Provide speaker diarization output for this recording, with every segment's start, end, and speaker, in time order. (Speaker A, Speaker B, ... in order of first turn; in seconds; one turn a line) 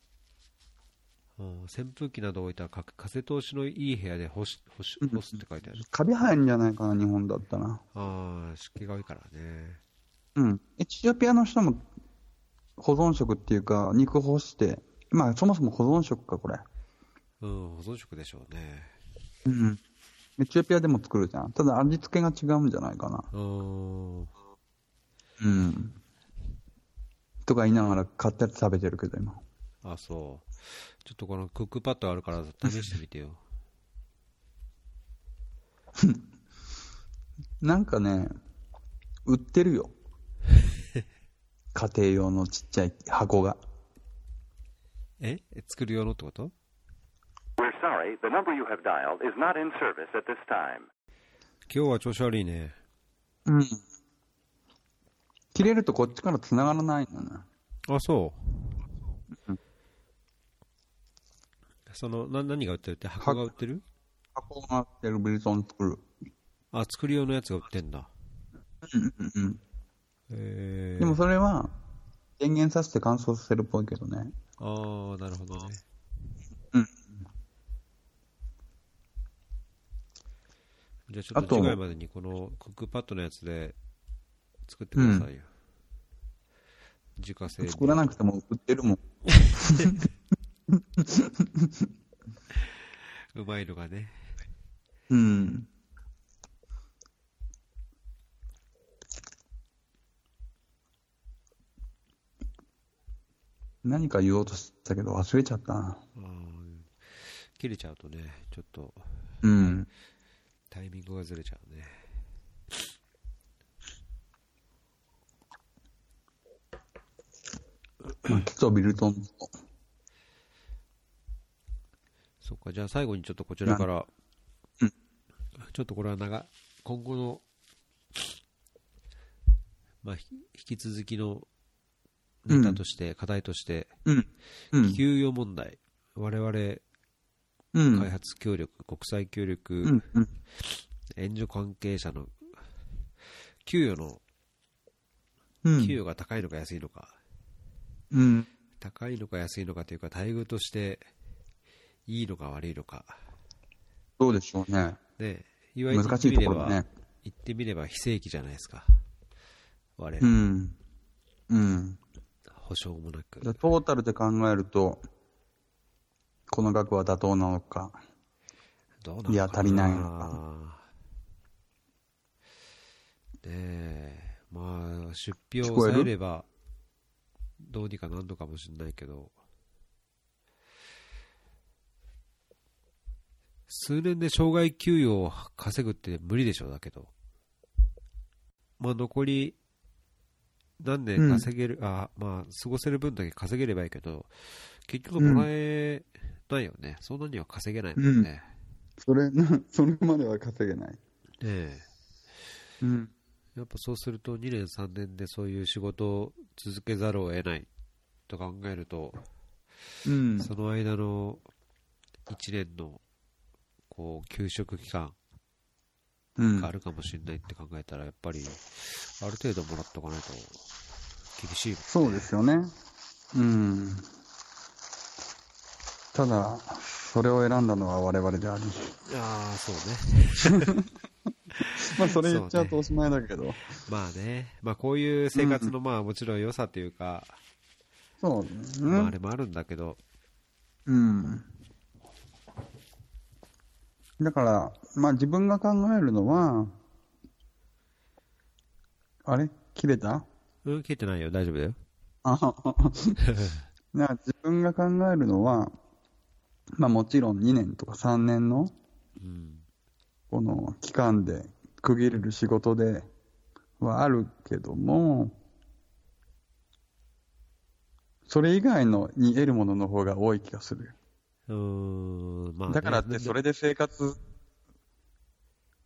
Speaker A: 1.4-5.8
Speaker B: 5.0-7.8
Speaker A: 7.9-9.8
Speaker B: 10.3-11.8
Speaker B: 12.8-16.6
Speaker A: 17.4-18.9
Speaker B: 19.4-19.8
Speaker B: 20.4-23.3
Speaker A: 23.3-24.3
Speaker B: 25.4-26.0
Speaker B: 27.4-29.4
Speaker A: 29.8-33.4
Speaker B: 37.6-38.3
Speaker B: 39.2-39.9
Speaker B: 41.7-43.6
Speaker A: 45.2-46.5
Speaker C: 47.6-50.9
Speaker A: 51.7-52.8
Speaker B: 53.5-53.8
Speaker B: 55.5-57.5
Speaker A: 57.9-58.8
Speaker A: 61.9-63.8
Speaker B: 63.2-63.5
Speaker B: 64.3-66.0
Speaker A: 66.7-68.1
Speaker B: 68.8-69.6
Speaker A: 70.3-71.2
Speaker B: 71.0-71.8
Speaker B: 72.4-74.3
Speaker A: 74.6-75.8
Speaker B: 76.7-77.1
Speaker A: 81.1-83.8
Speaker B: 81.3-81.8
Speaker A: 84.7-85.5
Speaker B: 85.0-85.3
Speaker A: 87.2-88.0
Speaker B: 87.6-89.0
Speaker A: 89.3-90.0
Speaker B: 89.5-90.0
Speaker B: 90.7-91.7
Speaker A: 92.5-94.3
Speaker B: 95.1-95.7
Speaker B: 103.8-106.0
Speaker A: 106.1-109.8
Speaker B: 109.4-109.9
Speaker A: 110.7-112.1
Speaker B: 118.2-119.5
Speaker A: 122.4-124.1
Speaker A: 125.6-127.4
Speaker A: 130.0-131.5
Speaker A: 132.4-133.9
Speaker B: 132.5-132.8
Speaker B: 134.1-135.0
Speaker A: 134.8-136.8
Speaker B: 137.7-138.1
Speaker A: 137.9-140.0
Speaker B: 139.8-140.3
Speaker A: 140.6-142.3
Speaker A: 143.6-144.2
Speaker B: 145.6-146.0
Speaker A: 145.8-147.2
Speaker B: 148.1-148.5
Speaker A: 148.8-151.1
Speaker A: 152.1-153.2
Speaker B: 154.2-155.0
Speaker A: 155.2-159.0
Speaker B: 155.9-156.9
Speaker A: 160.0-160.4
Speaker B: 160.2-160.8
Speaker B: 161.5-162.0
Speaker A: 162.5-163.6
Speaker B: 163.4-165.0
Speaker B: 166.5-168.0
Speaker A: 169.0-170.8
Speaker B: 169.3-170.3
Speaker A: 173.4-176.5
Speaker B: 175.6-176.1
Speaker A: 177.6-179.3
Speaker A: 183.7-187.1
Speaker A: 188.8-189.6
Speaker A: 190.8-198.5
Speaker B: 191.2-191.5
Speaker B: 195.2-195.5
Speaker B: 198.0-198.3
Speaker B: 199.0-201.0
Speaker A: 201.4-201.9
Speaker B: 202.8-203.1
Speaker A: 203.6-207.7
Speaker A: 208.3-209.2
Speaker B: 210.0-210.5
Speaker A: 210.4-211.4
Speaker A: 212.3-213.0
Speaker A: 213.9-215.2
Speaker B: 216.4-216.7
Speaker A: 216.6-220.6
Speaker A: 221.3-222.3
Speaker B: 221.9-222.7
Speaker B: 223.3-224.1
Speaker B: 226.1-228.9
Speaker A: 229.1-230.8
Speaker B: 230.5-230.8
Speaker A: 231.6-232.8
Speaker B: 231.8-233.6
Speaker A: 233.8-237.4
Speaker B: 235.3-235.7
Speaker B: 238.2-239.1
Speaker A: 238.9-240.0
Speaker B: 240.8-241.5
Speaker B: 244.2-246.8
Speaker B: 249.2-250.3
Speaker A: 250.6-251.8
Speaker B: 252.2-253.2
Speaker A: 253.2-253.6
Speaker B: 253.9-255.8
Speaker B: 256.8-258.7
Speaker A: 259.2-259.6
Speaker B: 260.3-263.1
Speaker B: 263.8-265.4
Speaker B: 268.3-270.9
Speaker A: 271.5-273.4
Speaker B: 272.7-274.2